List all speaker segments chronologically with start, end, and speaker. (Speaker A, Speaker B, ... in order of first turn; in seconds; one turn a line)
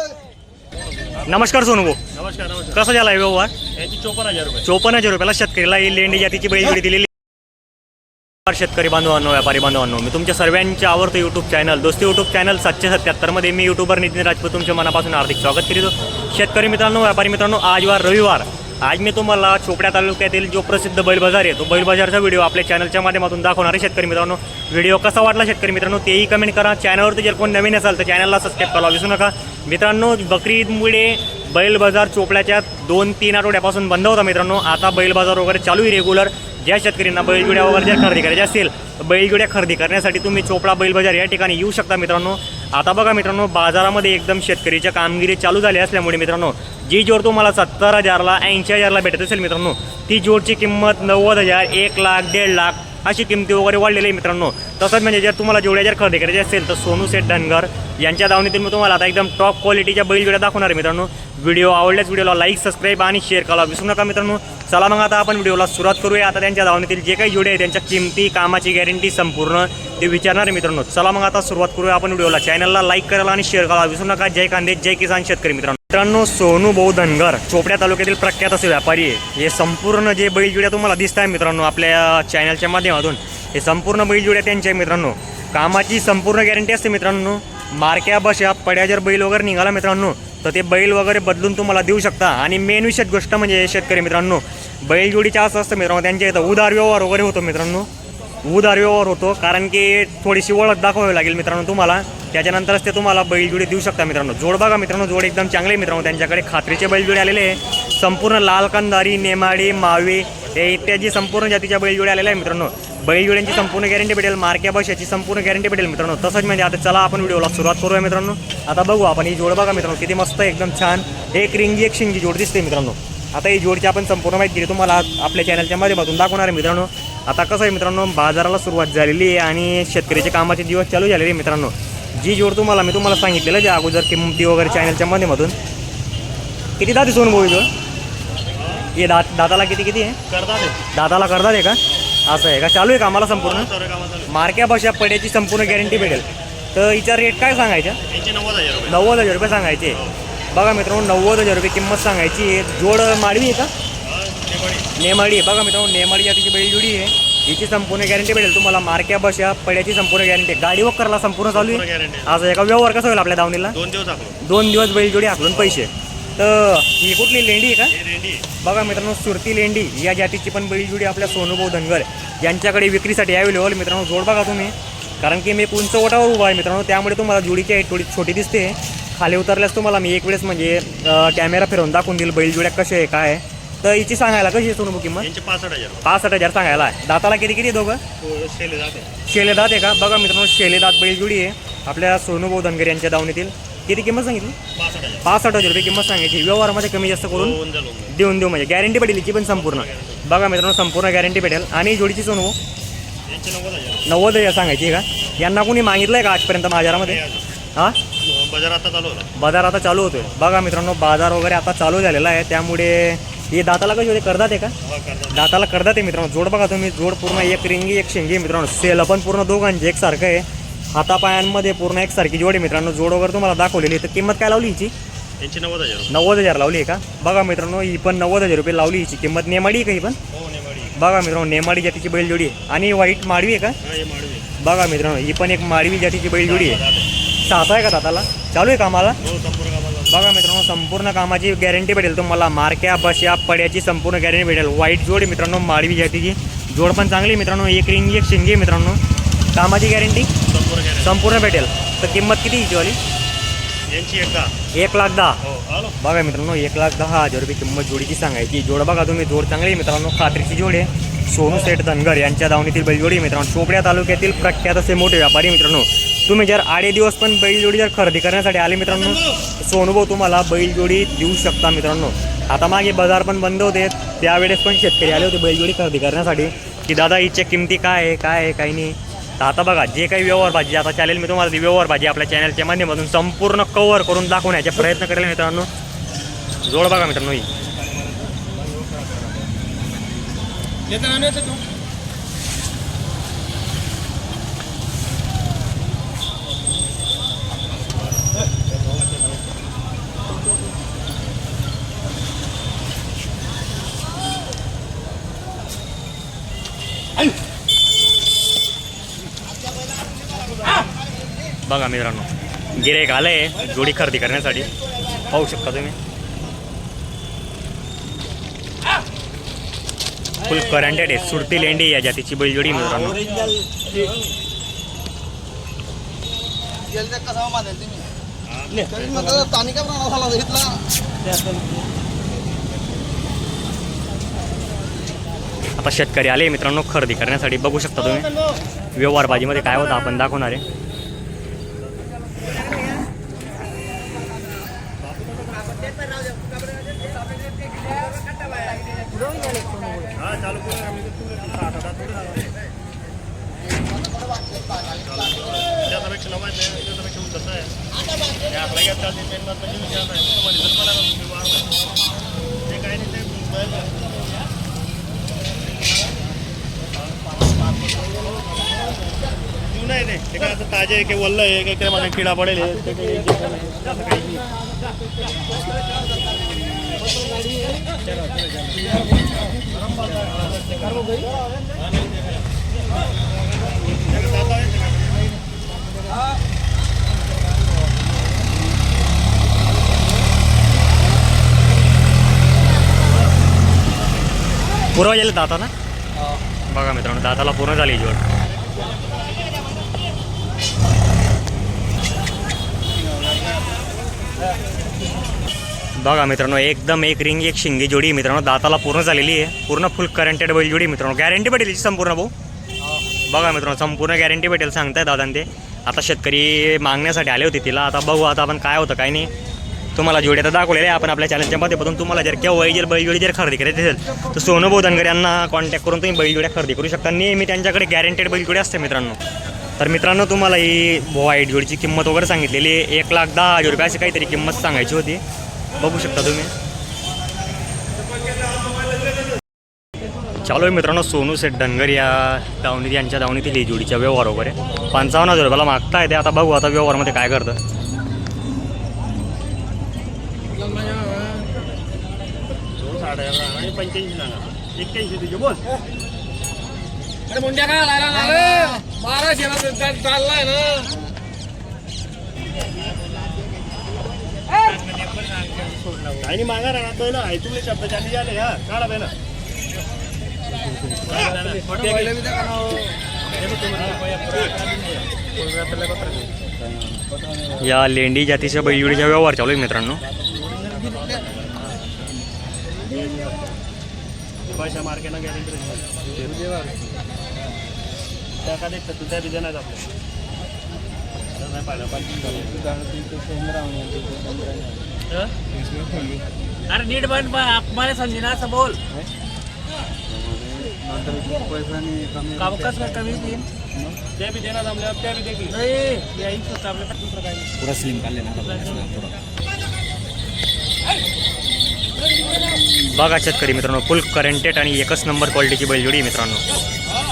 Speaker A: 1.2-2.0
Speaker B: 2.1-2.8
Speaker A: 2.7-3.5
Speaker B: 3.8-4.7
Speaker A: 4.6-7.1
Speaker A: 8.4-97.9
Speaker A: 98.4-135.6
Speaker A: 136.8-137.7
Speaker B: 138.6-138.9
Speaker A: 138.9-140.2
Speaker B: 140.3-140.8
Speaker A: 140.9-143.7
Speaker B: 143.3-144.3
Speaker A: 144.3-148.0
Speaker B: 145.7-146.3
Speaker B: 148.1-149.2
Speaker A: 148.9-150.0
Speaker A: 150.5-153.7
Speaker B: 154.0-154.9
Speaker A: 155.0-163.8
Speaker B: 161.5-162.4
Speaker B: 163.7-164.4
Speaker A: 164.4-168.0
Speaker B: 165.5-165.8
Speaker B: 167.9-168.6
Speaker A: 168.6-185.3
Speaker B: 185.2-186.1
Speaker A: 186.0-188.0
Speaker B: 188.2-189.1
Speaker A: 189.3-194.6
Speaker B: 194.8-195.3
Speaker A: 195.2-197.6
Speaker B: 197.3-198.1
Speaker A: 198.1-202.6
Speaker B: 199.5-200.2
Speaker B: 203.3-204.1
Speaker A: 204.1-207.2
Speaker B: 206.9-207.5
Speaker B: 208.2-209.3
Speaker A: 209.4-214.7
Speaker B: 214.8-215.4
Speaker A: 215.3-224.9
Speaker B: 225.4-226.1
Speaker A: 226.1-230.2
Speaker B: 230.3-230.9
Speaker A: 231.0-233.8
Speaker B: 233.8-234.5
Speaker A: 234.6-236.8
Speaker B: 236.4-237.1
Speaker A: 237.4-239.2
Speaker B: 239.2-240.2
Speaker A: 240.1-249.0
Speaker A: 249.5-250.3
Speaker B: 250.5-251.2
Speaker A: 251.0-253.0
Speaker B: 253.9-254.5
Speaker A: 254.7-255.4
Speaker B: 255.4-256.0
Speaker A: 256.0-285.7
Speaker A: 286.6-287.5
Speaker B: 287.9-289.3
Speaker B: 291.0-291.3
Speaker B: 298.7-299.1
Speaker A: 311.6-314.7
Speaker A: 315.3-316.0
Speaker A: 320.4-323.2
Speaker B: 322.7-324.0
Speaker B: 328.5-329.9
Speaker A: 335.8-338.3
Speaker B: 338.0-338.6
Speaker A: 338.9-340.6
Speaker B: 345.0-346.1
Speaker C: 349.4-349.7
Speaker B: 350.1-352.5
Speaker B: 354.8-357.7
Speaker B: 358.4-361.8
Speaker B: 362.7-364.1
Speaker B: 369.7-374.4
Speaker B: 384.0-385.3
Speaker A: 394.9-395.7
Speaker A: 396.7-398.2
Speaker A: 406.0-412.3
Speaker A: 413.3-419.3
Speaker A: 419.9-429.2
Speaker A: 429.8-435.2
Speaker A: 435.8-436.5
Speaker A: 440.4-447.6
Speaker C: 450.6-451.5
Speaker B: 452.8-455.6
Speaker C: 457.3-460.9
Speaker D: 464.6-466.2
Speaker B: 466.2-469.1
Speaker B: 471.1-472.2
Speaker D: 471.1-472.0
Speaker D: 473.4-475.8
Speaker B: 473.6-474.1
Speaker A: 477.6-480.0
Speaker B: 480.2-481.8
Speaker B: 482.9-483.4
Speaker B: 484.5-485.9
Speaker C: 486.4-486.8
Speaker B: 488.4-489.9
Speaker B: 491.4-492.7
Speaker C: 492.8-494.8
Speaker D: 496.7-498.8
Speaker C: 500.5-502.4
Speaker D: 502.4-503.4
Speaker B: 504.2-505.6
Speaker D: 505.6-507.4
Speaker D: 507.9-508.9
Speaker C: 508.4-509.0
Speaker A: 512.9-516.4